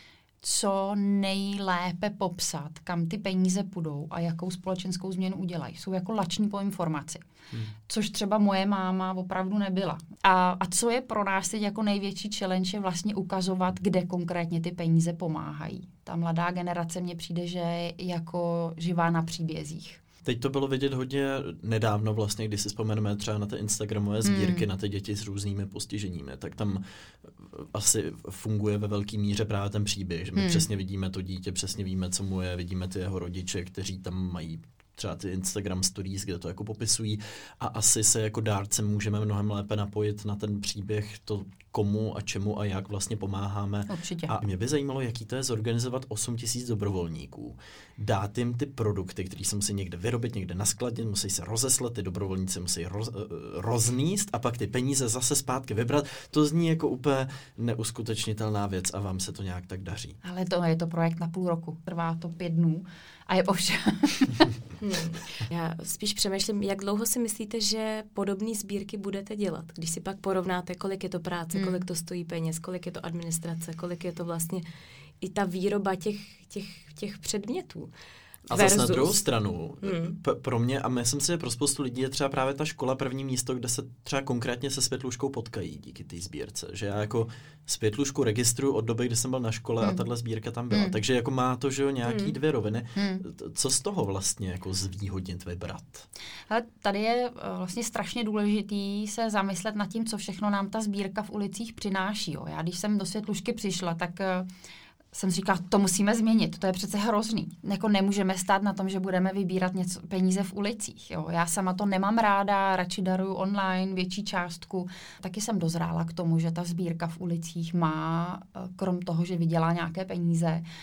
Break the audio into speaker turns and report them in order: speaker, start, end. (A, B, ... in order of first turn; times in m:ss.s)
0:00.4-0:07.2 A
0:07.9-0:20.0 A
0:20.2-1:00.2 B
0:24.2-0:24.7 A
0:30.4-0:30.7 A
0:43.9-0:44.4 A
1:00.2-1:04.5 A
1:04.8-1:14.6 C
1:11.5-1:11.8 A
1:15.2-1:17.9 C
1:18.5-1:19.2 C
1:18.5-1:36.1 B
1:19.8-1:20.2 C
1:30.7-1:31.0 A
1:32.1-1:32.3 C
1:33.0-1:33.2 A
1:36.5-1:44.5 A
1:45.1-2:00.6 A